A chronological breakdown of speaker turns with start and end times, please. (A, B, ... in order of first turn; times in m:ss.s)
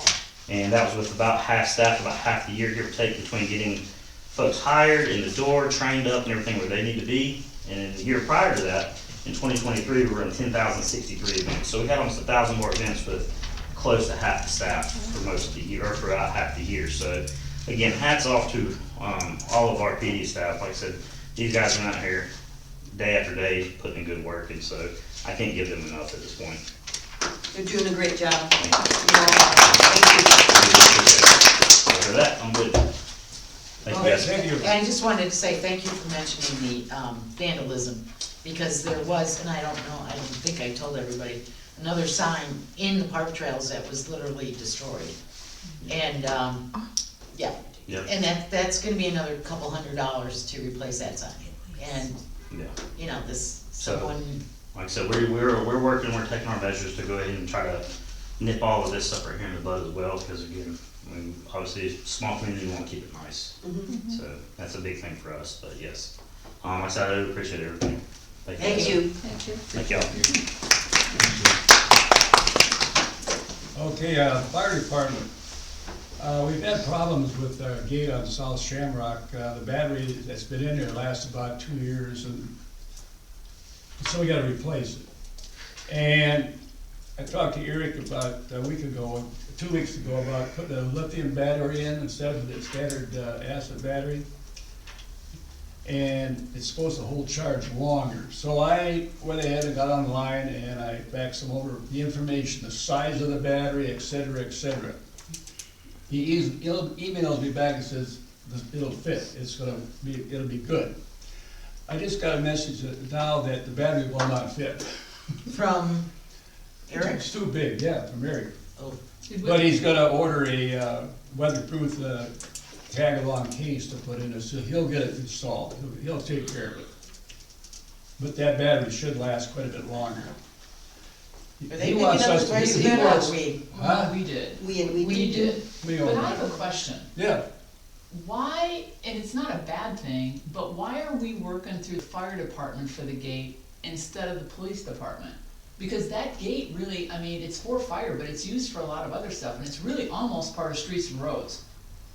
0:00.5-0:22.3 A
0:22.9-0:26.6 A
0:27.5-0:30.5 B
0:28.6-0:28.8 A
0:30.5-0:32.9 A
0:33.8-0:34.4 A
0:33.9-0:34.2 B
0:33.9-0:34.8 C
0:34.5-0:45.2 D
0:45.9-0:46.8 D
0:47.3-0:52.2 D
0:52.9-0:54.4 D
0:53.8-0:54.1 A
0:54.7-0:57.8 A
0:58.4-1:09.1 A
1:03.6-1:04.0 B
1:08.6-1:09.1 B
1:09.2-1:09.5 E
1:09.7-1:10.3 A
1:13.7-1:15.3 C
1:16.2-1:22.5 C
1:24.0-1:25.0 C
1:25.9-1:26.5 C
1:27.2-1:34.2 C
1:35.8-1:45.0 C
1:46.1-1:50.9 C
1:51.9-1:55.4 C
1:55.5-1:56.1 D
1:56.9-1:57.2 D
1:56.9-1:58.5 C
1:59.2-1:59.7 E
1:59.4-2:02.3 C
2:02.9-2:06.9 C
2:08.2-2:10.3 C
2:11.6-2:14.1 C
2:11.7-2:13.6 D
2:13.7-2:17.1 E
2:14.6-2:15.6 B
2:15.7-2:16.4 C
2:17.1-2:17.4 C
2:18.1-2:31.6 E